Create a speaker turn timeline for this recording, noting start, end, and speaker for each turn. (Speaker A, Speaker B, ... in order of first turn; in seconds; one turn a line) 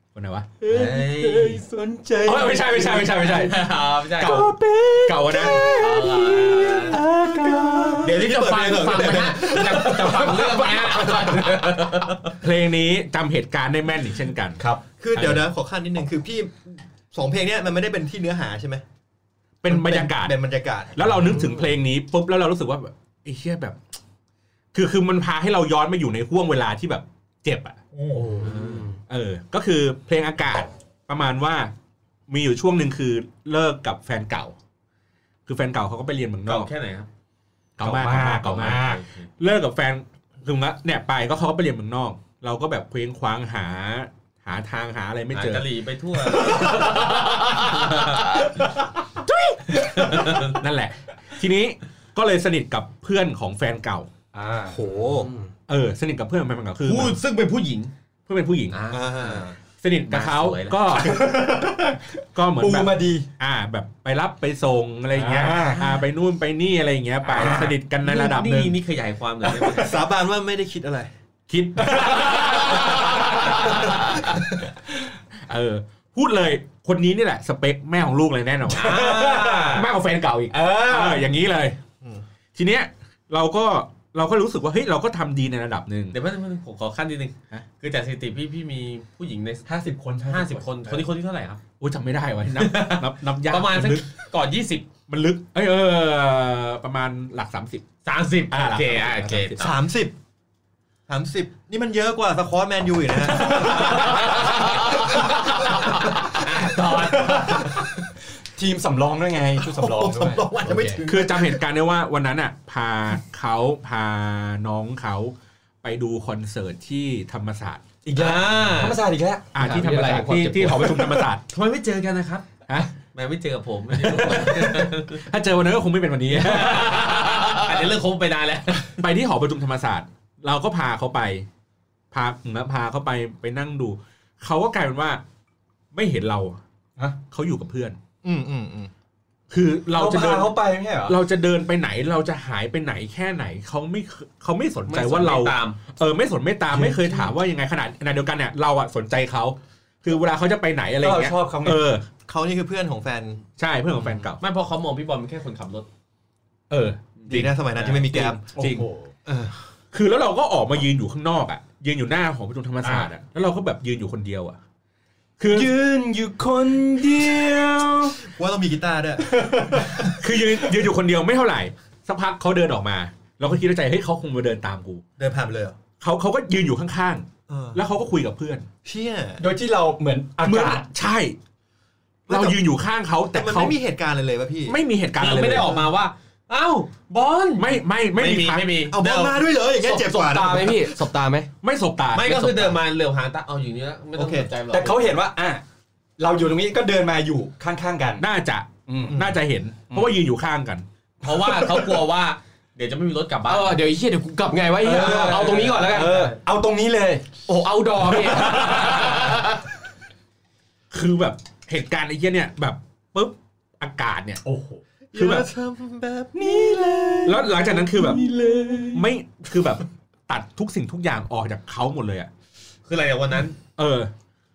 Speaker A: 0.1-0.5
Speaker B: 0.6-3.1
Speaker C: 0.7-1.6
Speaker A: 2.2-5.8
Speaker C: 3.2-4.5
Speaker B: 4.2-11.6
Speaker C: 5.6-7.0
Speaker D: 6.9-8.1
Speaker C: 8.0-12.3
Speaker D: 9.6-11.8
Speaker A: 12.3-14.6
Speaker D: 14.6-15.4
Speaker B: 15.0-18.8
Speaker A: 19.6-20.4
Speaker B: 19.7-21.5
Speaker A: 20.9-23.8
Speaker A: 24.7-27.8
Speaker D: 28.1-28.9
Speaker C: 28.4-28.8
Speaker A: 29.1-31.7
Speaker A: 32.3-34.5
Speaker A: 35.5-36.7
Speaker C: 36.5-37.1
Speaker A: 37.8-45.6
Speaker D: 37.8-38.8
Speaker C: 37.9-39.3
Speaker C: 45.3-48.5
Speaker A: 49.8-54.1
Speaker C: 49.9-50.6
Speaker D: 54.3-54.8
Speaker B: 54.7-55.3
Speaker A: 55.7-57.2
Speaker C: 56.8-57.9
Speaker A: 58.3-58.8
Speaker C: 58.7-59.5
Speaker B: 58.9-59.5
Speaker A: 59.8-61.6
Speaker C: 60.1-61.1
Speaker D: 61.0-63.3
Speaker A: 62.3-68.8
Speaker D: 65.1-66.0
Speaker C: 67.2-70.0
Speaker D: 67.3-67.7
Speaker B: 69.7-71.1
Speaker A: 71.5-74.4
Speaker D: 71.8-74.0
Speaker A: 75.5-81.8
Speaker C: 78.7-79.9
Speaker D: 78.9-79.8
Speaker D: 80.7-81.3
Speaker A: 82.5-86.2
Speaker C: 86.1-89.7
Speaker D: 89.7-90.7
Speaker C: 90.3-91.6
Speaker A: 91.8-94.0
Speaker C: 92.6-94.9
Speaker A: 95.1-97.8
Speaker C: 98.0-99.8
Speaker A: 98.5-99.6
Speaker B: 99.6-100.1
Speaker B: 101.1-105.5
Speaker C: 103.3-107.8
Speaker D: 103.4-103.9
Speaker B: 107.0-107.6
Speaker D: 107.1-107.9
Speaker D: 108.5-111.0
Speaker B: 109.6-111.6
Speaker A: 111.0-117.8
Speaker D: 118.0-121.2
Speaker C: 118.1-119.0
Speaker A: 119.5-121.4
Speaker C: 119.8-122.5
Speaker C: 123.1-125.2
Speaker A: 123.9-127.9
Speaker C: 126.3-128.9
Speaker A: 129.0-131.5
Speaker A: 132.1-135.2
Speaker A: 135.9-136.6
Speaker A: 137.3-138.0
Speaker B: 138.2-138.9
Speaker A: 139.5-152.0
Speaker D: 139.9-141.2
Speaker C: 144.9-145.8
Speaker D: 146.7-147.3
Speaker D: 151.0-151.8
Speaker B: 152.3-153.4
Speaker A: 153.6-154.4
Speaker C: 154.4-155.9
Speaker A: 156.7-158.8
Speaker C: 157.2-157.9
Speaker B: 157.3-158.4
Speaker D: 158.5-159.1
Speaker B: 159.2-159.5
Speaker A: 159.9-164.6
Speaker D: 162.8-163.1
Speaker A: 165.4-165.7
Speaker D: 165.5-168.3
Speaker B: 168.2-170.0
Speaker D: 169.3-170.1
Speaker A: 170.2-175.0
Speaker B: 175.2-175.8
Speaker A: 176.0-178.7
Speaker B: 177.5-177.8
Speaker B: 178.8-179.4
Speaker D: 179.4-180.9
Speaker A: 180.4-181.4
Speaker B: 182.3-182.6
Speaker A: 182.3-183.7
Speaker B: 183.3-184.8
Speaker A: 184.7-185.8
Speaker C: 185.2-189.4
Speaker B: 185.6-185.8
Speaker A: 187.6-188.7
Speaker B: 188.9-191.1
Speaker E: 189.8-191.5
Speaker A: 191.6-192.5
Speaker C: 192.1-195.1
Speaker E: 192.2-192.7
Speaker B: 194.2-194.5
Speaker D: 194.7-195.6
Speaker D: 196.2-198.2
Speaker A: 198.2-200.8
Speaker D: 198.8-199.3
Speaker B: 199.1-199.3
Speaker D: 199.9-200.2
Speaker C: 201.2-203.8
Speaker D: 201.3-201.9
Speaker E: 203.4-206.3
Speaker D: 204.8-207.3
Speaker E: 207.4-209.6
Speaker D: 208.1-209.5
Speaker A: 210.9-214.4
Speaker D: 214.4-214.8
Speaker B: 215.1-218.4
Speaker A: 215.1-215.5
Speaker D: 216.3-218.9
Speaker A: 217.2-218.2
Speaker E: 218.4-218.8
Speaker A: 218.9-222.3
Speaker C: 222.8-223.6
Speaker A: 223.8-224.1